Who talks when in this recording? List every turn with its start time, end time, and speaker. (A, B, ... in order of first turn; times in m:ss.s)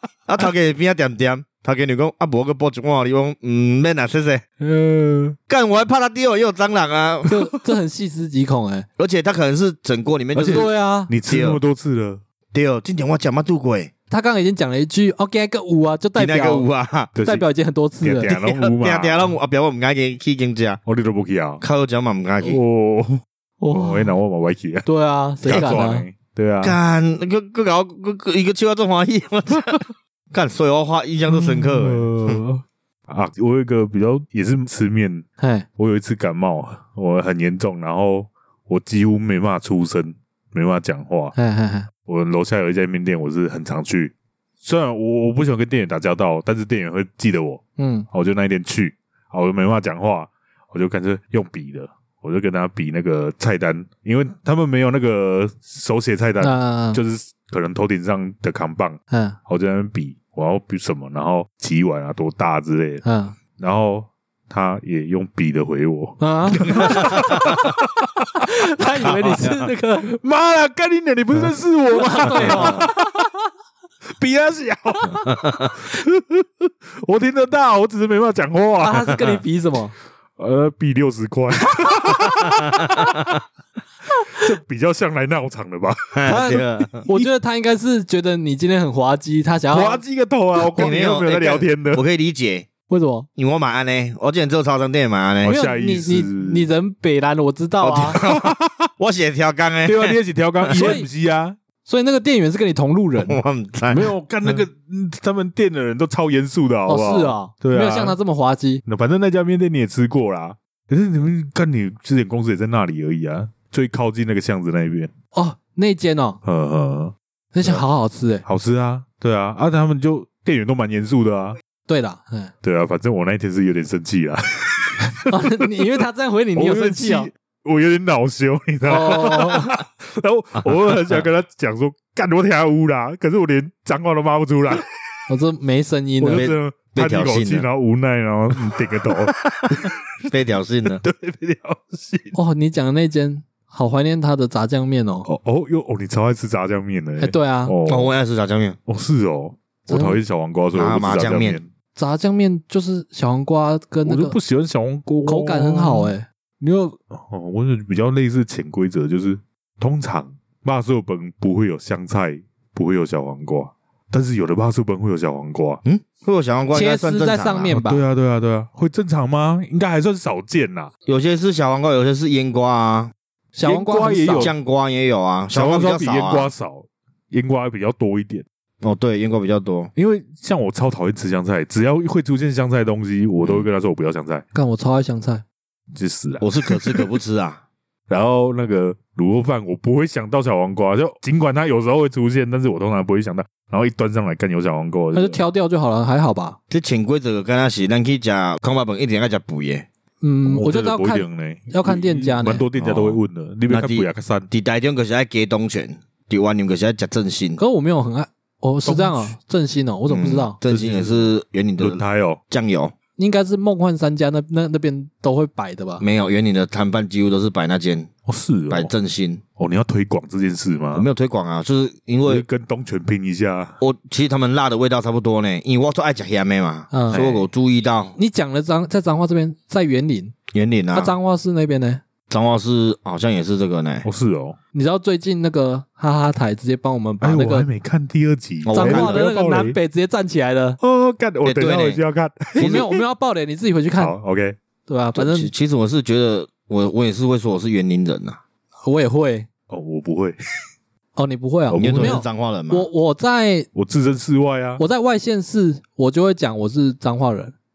0:00.3-0:04.4 A
0:04.6-0:05.4 B
0:05.5-0:07.3 A
0:07.3-0:08.9 C
0:09.0-0:10.7 A
0:10.3-0:12.2 B
0:10.4-0:11.1 C
0:11.2-0:11.6 A
0:12.5-0:13.9 A
0:14.1-0:16.7 C
0:16.1-0:17.1 A
0:17.1-0:17.5 B
0:17.2-0:18.3 C
0:18.0-0:19.3 B
0:18.3-0:20.8 A
0:20.9-0:21.6 B
0:21.6-0:22.6 A
0:22.4-0:24.9 B
0:23.6-0:24.1 C
0:24.8-0:26.1 C
0:25.4-0:26.8 B
0:26.6-0:32.4 A
0:31.3-0:35.2 B
0:35.4-0:35.6 C
0:35.8-0:41.4 B
0:41.4-0:41.9 C
0:42.1-1:03.0 B
0:47.8-0:48.1 C
0:56.4-0:57.0 C
0:59.1-0:59.4 C
1:03.0-1:03.4 C
1:03.6-1:08.5 B
1:06.2-1:07.3 C
1:08.4-1:10.1 C
1:09.1-1:13.3 B
1:11.9-1:12.9 C
1:14.0-1:19.4 B
1:15.2-1:15.7 A
1:18.8-1:19.9 C
1:20.4-1:23.3 B
1:24.3-1:27.3 B
1:26.1-1:27.0 A
1:26.2-1:30.0 C
1:29.7-1:32.0 B
1:30.7-1:32.7 A
1:32.9-1:33.3 C
1:33.4-1:35.6 A
1:35.4-1:36.7 B
1:35.4-1:38.2 C
1:37.8-1:38.7 B
1:38.0-1:40.2 A
1:39.8-1:41.6 B
1:40.7-1:41.1 C
1:41.8-1:43.4 C
1:43.2-1:44.1 A
1:43.9-1:48.2 B
1:46.9-1:48.8 C
1:48.9-1:55.1 B
1:55.3-1:56.4 C
1:56.4-1:57.8 B
1:57.5-1:58.4 C
1:58.4-2:01.6 B
2:01.9-2:02.5 C
2:02.6-2:06.0 B
2:05.3-2:07.3 C
2:06.6-2:14.8 B
2:08.9-2:09.8 C
2:15.3-2:16.5 C
2:16.2-2:20.0 B
2:16.3-2:17.6 A
2:20.3-2:21.0 A
2:20.9-2:22.4 B
2:22.3-2:25.3 C
2:25.3-2:28.1 B
2:27.2-2:27.7 C
2:27.9-2:28.8 A
2:28.9-2:31.7 B
2:29.9-2:30.2 C
2:30.7-2:31.6 A
2:32.0-2:34.4 C
2:34.0-2:45.8 B
2:35.2-2:36.2 C
2:45.8-2:47.7 A
2:46.7-2:48.0 C
2:47.7-2:50.9 B
2:51.1-2:53.1 A
2:53.6-2:54.5 C
2:53.6-2:54.6 B
2:54.4-2:56.5 A
2:55.5-2:58.4 B
2:58.8-2:59.9 A
3:00.0-3:04.4 B
3:04.5-3:05.4 C
3:06.0-3:07.1 B
3:06.4-3:07.6 A
3:08.1-3:15.4 B
3:15.1-3:16.6 C
3:16.7-3:19.9 A
3:20.2-3:22.7 C
3:20.4-3:24.5 B
3:22.8-3:27.6 A
3:27.6-3:30.6 C
3:28.9-3:29.3 B
3:30.1-3:32.9 A
3:30.6-3:32.4 B
3:33.2-3:36.0 C
3:36.0-3:38.1 A
3:38.2-3:38.9 B
3:38.7-3:39.4 A
3:39.6-3:41.1 B
3:40.9-3:42.4 A
3:42.2-3:43.7 B
3:43.8-3:48.2 A
3:46.9-3:47.2 C
3:47.1-3:47.5 B
3:48.2-3:50.4 C
3:50.5-3:51.1 A
3:50.9-3:52.0 C
3:52.3-3:54.1 A
3:54.0-3:54.6 B
3:54.7-3:57.6 C
3:57.2-3:59.8 B
3:58.6-3:59.3 A
3:58.7-4:00.8 C
4:00.8-4:03.0 B
4:01.4-4:02.0 A
4:02.6-4:02.8 A
4:02.6-4:04.1 C
4:03.9-4:04.6 B
4:04.9-4:05.5 C
4:05.1-4:08.4 A
4:08.8-4:09.5 C
4:09.7-4:10.4 B
4:11.2-4:13.7 C
4:11.7-4:12.2 B
4:11.8-4:12.9 A
4:13.7-4:14.8 B
4:14.8-4:17.6 C